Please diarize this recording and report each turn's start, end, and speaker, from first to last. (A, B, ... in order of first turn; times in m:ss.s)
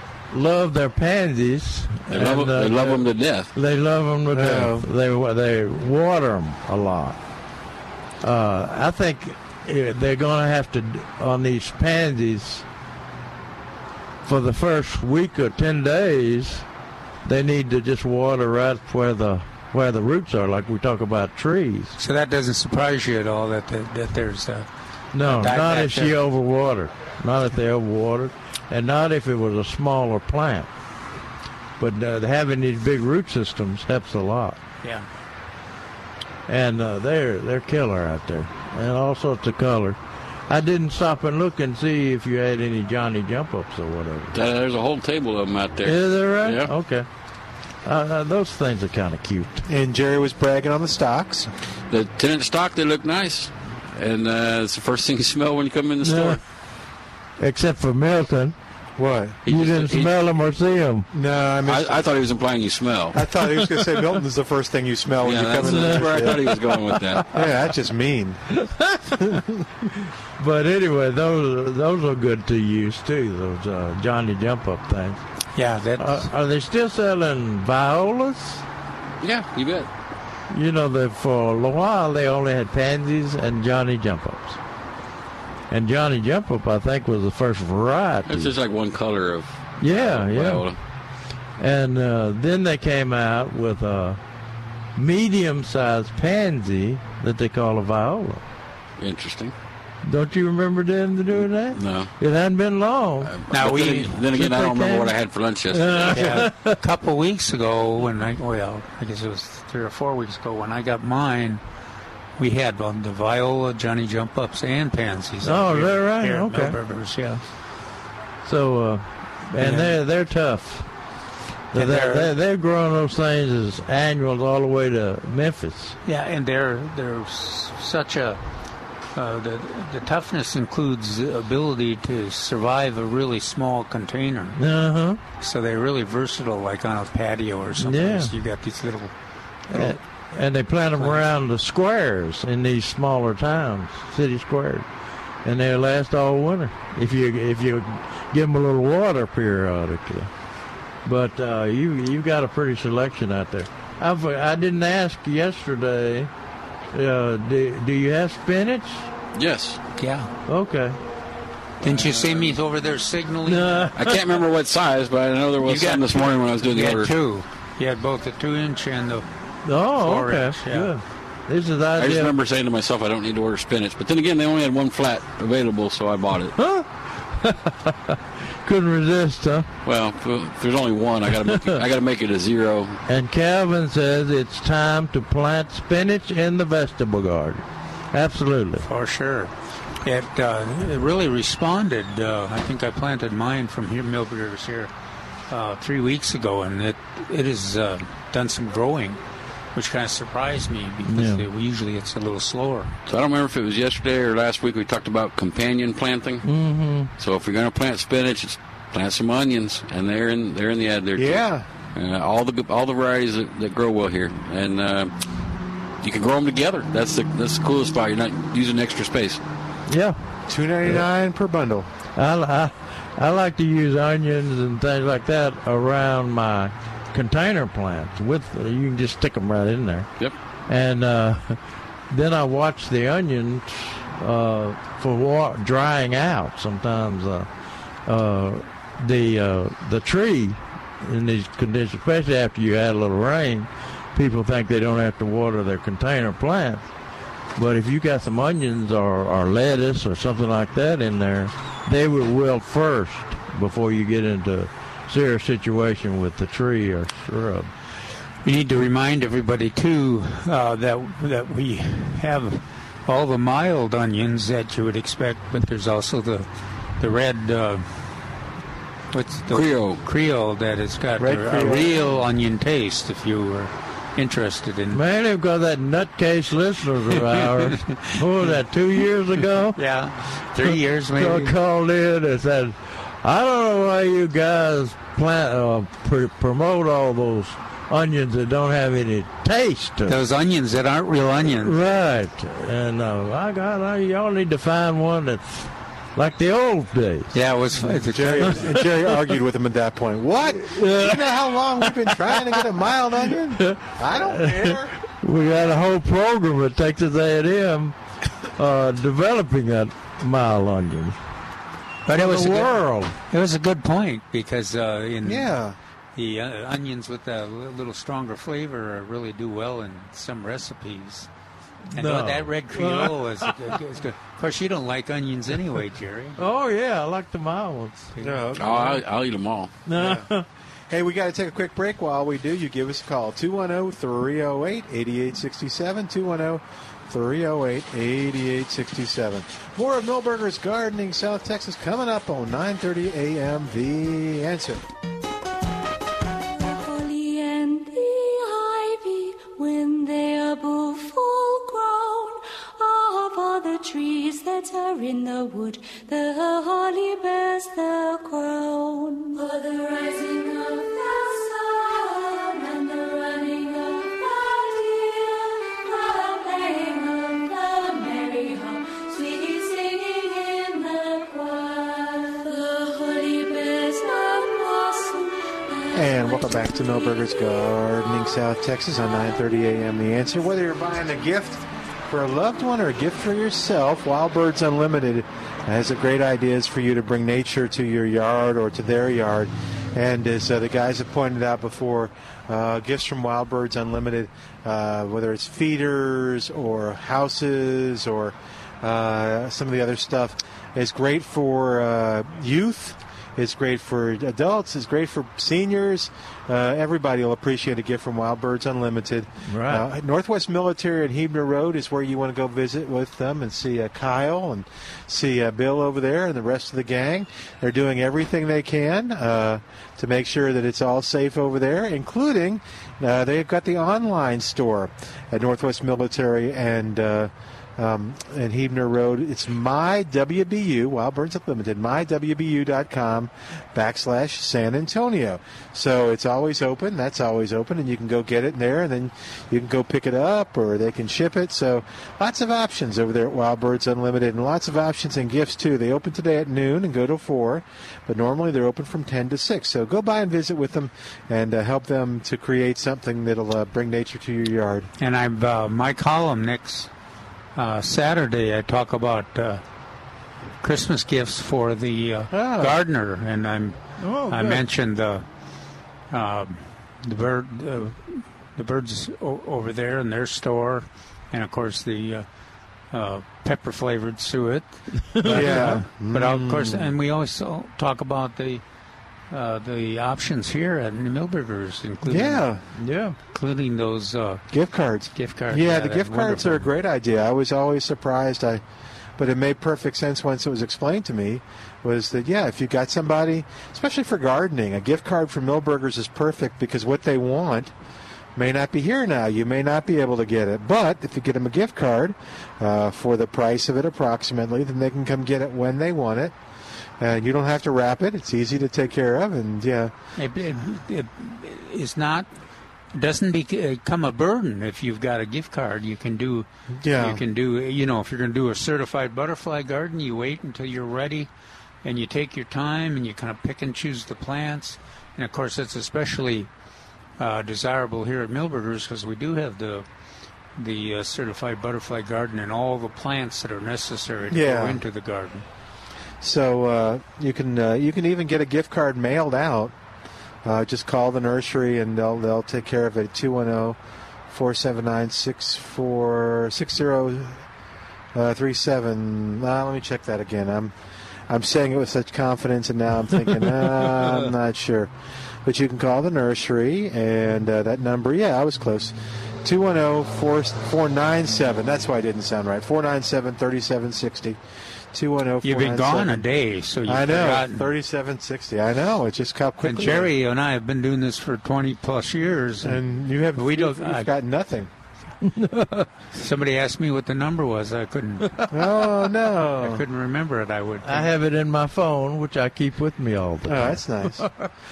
0:00.3-0:07.2 A
0:02.1-0:03.5 B
0:04.3-0:04.9 C
0:08.2-0:12.6 A
0:14.3-0:16.7 A
0:17.2-0:22.0 A
0:22.0-0:24.7 D
0:25.1-0:30.7 A
0:25.2-0:26.2 D
0:31.8-0:34.6 A
0:36.5-0:40.0 A
0:40.5-0:44.4 A
0:44.3-0:46.7 B
0:45.8-0:47.0 A
0:47.8-0:49.6 A
0:49.7-0:51.5 C
0:51.9-0:56.4 B
0:56.0-0:56.4 A
0:57.4-0:58.6 A
0:59.0-0:59.4 C
0:59.4-1:00.1 B
0:59.5-1:01.1 A
1:01.1-1:02.0 C
1:01.7-1:03.2 B
1:03.1-1:06.5 C
1:05.2-1:07.3 B
1:05.6-1:07.2 A
1:07.3-1:08.4 C
1:08.6-1:09.4 A
1:09.2-1:09.6 C
1:10.4-1:15.2 A
1:15.6-1:16.3 D
1:16.0-1:18.6 A
1:19.2-1:19.9 B
1:20.5-1:24.6 A
1:25.7-1:28.5 A
1:28.3-1:30.8 B
1:29.8-1:30.7 A
1:31.6-1:34.2 A
1:35.0-1:38.4 A
1:39.0-1:39.5 B
1:40.0-1:43.3 A
1:41.3-1:42.1 B
1:43.3-1:46.4 B
1:43.5-1:44.2 D
1:44.3-1:45.1 A
1:45.7-1:46.8 A
1:46.1-1:51.6 D
1:52.4-1:57.4 D
1:55.4-1:56.8 A
1:58.4-2:00.9 A
1:59.6-2:00.0 D
2:01.7-2:06.0 A
2:01.8-2:02.3 D
2:06.1-2:08.4 D
2:09.2-2:14.6 D
2:14.6-2:15.2 A
2:15.4-2:19.1 D
2:17.8-2:18.3 A
2:19.7-2:24.9 A
2:19.7-2:20.0 D
2:21.0-2:21.3 D
2:25.4-2:30.3 A
2:31.0-2:36.3 A
2:36.9-2:39.1 A
2:39.4-2:39.8 B
2:40.0-2:40.3 D
2:40.5-2:41.0 A
2:41.8-2:43.9 D
2:42.0-2:42.2 B
2:43.5-2:44.2 A
2:44.0-2:47.1 B
2:45.6-2:49.3 D
2:49.6-2:52.4 A
2:49.9-2:50.9 D
2:52.0-2:56.6 B
2:56.6-2:59.7 A
2:59.8-3:03.0 B
3:01.4-3:01.8 A
3:03.1-3:08.9 A
3:08.9-3:14.9 D
3:15.5-3:19.2 D
3:19.8-3:22.9 D
3:21.1-3:21.4 A
3:23.1-3:26.4 B
3:26.4-3:27.1 A
3:27.2-3:35.1 B
3:31.2-3:31.6 C
3:36.0-3:39.4 B
3:39.9-3:40.2 A
3:40.5-3:41.9 C
3:42.2-3:50.1 A
3:50.7-3:57.5 A
3:58.1-4:06.8 A
4:07.6-4:17.7 A
4:18.4-4:26.5 D
4:27.0-4:27.9 D
4:29.1-4:35.0 D
4:29.5-4:30.0 B
4:31.2-4:31.9 C
4:34.9-4:39.8 A
4:37.4-4:38.5 D
4:39.8-4:41.5 D
4:40.6-4:50.2 A
4:50.1-4:51.8 D
4:51.6-4:57.3 A
4:57.3-4:58.6 D
4:58.0-5:05.0 C
4:58.4-4:58.8 A
5:00.6-5:02.6 A
5:03.6-5:08.0 A
5:08.6-5:11.2 A
5:12.1-5:15.5 D
5:12.1-5:13.2 A
5:15.2-5:15.8 C
5:16.2-5:21.3 D
5:21.9-5:23.5 A
5:22.0-5:26.4 D
5:26.4-5:28.1 A
5:28.2-5:28.4 D
5:28.2-5:29.0 C
5:28.6-5:29.7 B
5:29.9-5:30.5 A
5:30.0-5:30.3 C
5:30.9-5:44.8 C
5:46.4-6:16.2 E
6:15.9-7:34.9 C
6:49.4-6:49.9 A
7:35.0-7:36.9 D
7:37.6-7:39.6 D
7:40.6-7:45.3 D
7:42.3-7:42.8 C
7:44.0-7:44.6 A
7:46.1-7:52.3 D
7:52.9-7:58.6 D
7:55.1-7:55.8 A
7:55.2-7:56.9 C
7:59.3-8:02.5 D
8:02.1-8:02.6 C
8:02.8-8:03.2 A
8:03.3-8:04.4 D
8:04.5-8:08.6 C
8:05.2-8:06.7 D
8:09.2-8:17.7 C
8:18.4-8:26.4 C
8:27.0-8:29.9 C
8:30.2-8:32.3 D
8:32.9-8:41.3 D
8:36.8-8:37.2 C
8:41.8-8:46.5 D
8:47.2-8:49.8 D
8:50.6-8:55.5 D
8:54.3-8:54.8 C
8:56.2-8:59.8 C
9:00.4-9:03.8 C
9:04.3-9:07.4 C
9:08.1-9:10.7 C
9:11.3-9:14.9 C
9:13.4-9:14.1 A
9:15.4-9:24.4 C
9:24.9-9:26.2 C
9:25.4-9:27.7 D
9:26.9-9:30.1 C
9:29.6-9:32.8 D
9:32.6-9:34.7 C
9:33.4-9:34.1 D
9:35.2-9:35.9 A
9:36.1-9:38.5 D
9:38.5-9:39.8 C
9:39.5-9:41.1 D
9:40.8-9:44.5 A
9:43.5-9:44.3 C